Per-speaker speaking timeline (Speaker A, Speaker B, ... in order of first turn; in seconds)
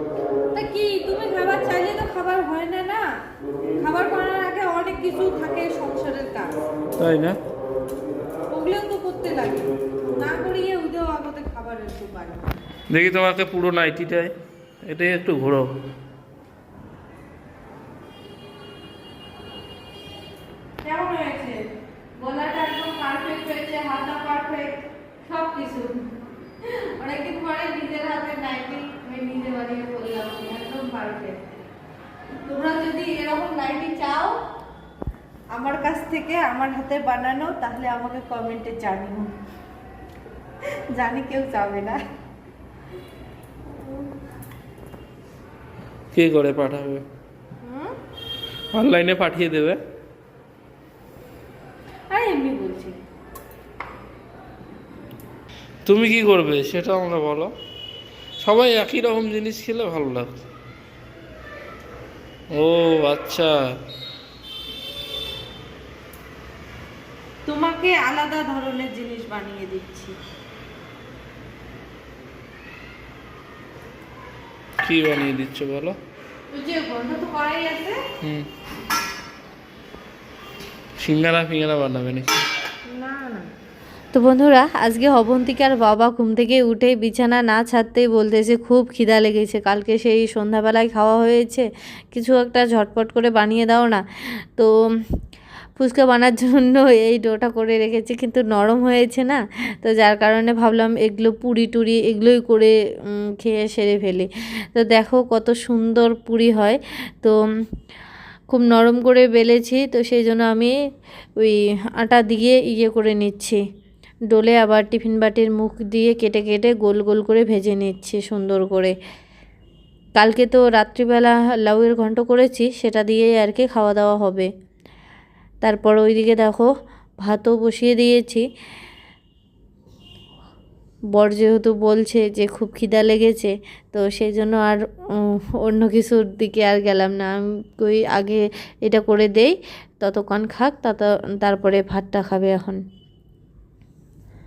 Speaker A: 0.5-3.0, 3.8-6.5, 8.5-12.5, 20.8-26.1, 26.6-31.6, 32.4-34.4, 35.5-39.3, 40.6-42.0, 43.7-44.1, 47.6-47.9, 52.1-53.0, 67.5-70.1, 76.5-78.0, 82.9-83.5
Speaker B: 7.0-7.4, 12.9-15.7, 46.1-47.0, 48.7-49.8, 55.9-57.5, 58.4-60.4, 62.5-63.7, 74.8-76.0, 78.2-78.5, 81.0-82.5
Speaker C: 84.1-94.0, 95.8-107.4, 108.5-110.7, 111.4-113.6, 114.3-119.0, 120.2-124.5, 125.6-126.7, 127.2-128.4, 131.1-142.8